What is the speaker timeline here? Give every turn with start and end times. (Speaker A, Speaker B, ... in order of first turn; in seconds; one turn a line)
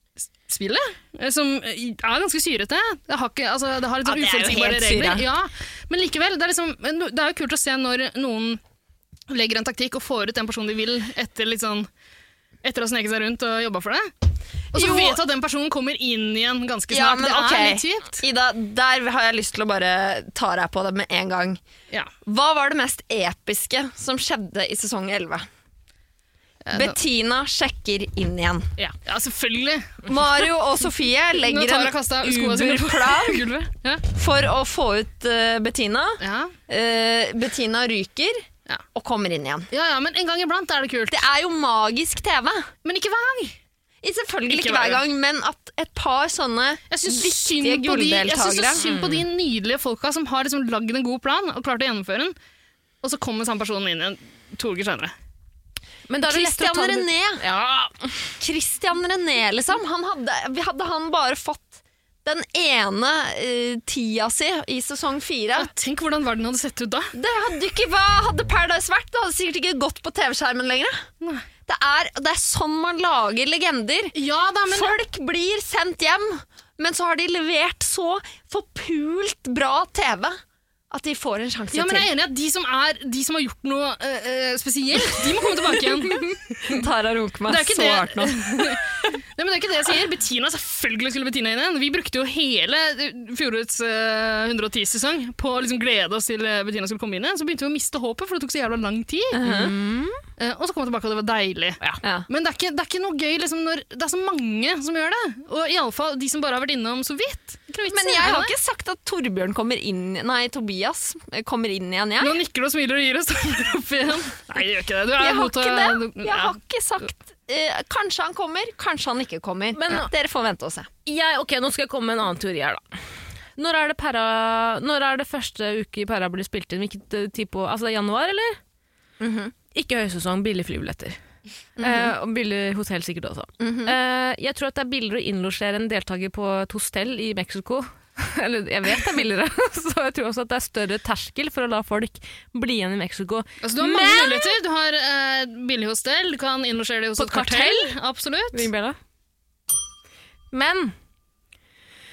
Speaker A: 0.4-8.6
Speaker B: 4.0-5.3
Speaker A: 9.3-11.9
Speaker A: 12.6-14.1
Speaker A: 14.7-18.2
Speaker B: 14.7-15.2
Speaker B: 16.9-21.6
Speaker B: 22.2-25.5
Speaker A: 26.6-26.9
Speaker B: 26.7-28.7
Speaker A: 29.0-30.2
Speaker B: 30.1-33.5
Speaker A: 31.4-34.0
Speaker B: 34.1-39.7
Speaker A: 36.2-36.5
Speaker A: 39.7-41.2
Speaker B: 41.1-42.7
Speaker A: 42.8-43.6
Speaker B: 44.0-48.8
Speaker A: 44.5-45.0
Speaker A: 46.9-52.3
Speaker C: 48.8-49.2
Speaker A: 53.0-55.1
Speaker C: 56.1-58.3
Speaker B: 56.2-57.4
Speaker B: 58.4-65.7
Speaker A: 65.5-67.1
Speaker B: 67.1-71.0
Speaker B: 71.7-74.1
Speaker A: 74.1-75.0
Speaker B: 74.7-80.4
Speaker B: 80.9-82.1
Speaker A: 81.7-86.8
Speaker B: 86.6-88.8
Speaker A: 87.5-99.4
Speaker B: 99.3-99.7
Speaker C: 99.4-100.2
Speaker A: 100.4-108.5
Speaker B: 107.9-112.4
Speaker A: 112.2-116.5
Speaker B: 115.2-120.9
Speaker C: 119.7-120.1
Speaker C: 121.0-123.0
Speaker C: 123.5-128.6
Speaker B: 129.2-129.5
Speaker C: 129.7-131.2
Speaker B: 131.8-132.1
Speaker C: 131.8-144.6
Speaker B: 133.6-133.9
Speaker A: 143.6-148.7
Speaker C: 147.2-147.9
Speaker C: 148.5-149.0
Speaker C: 150.5-150.9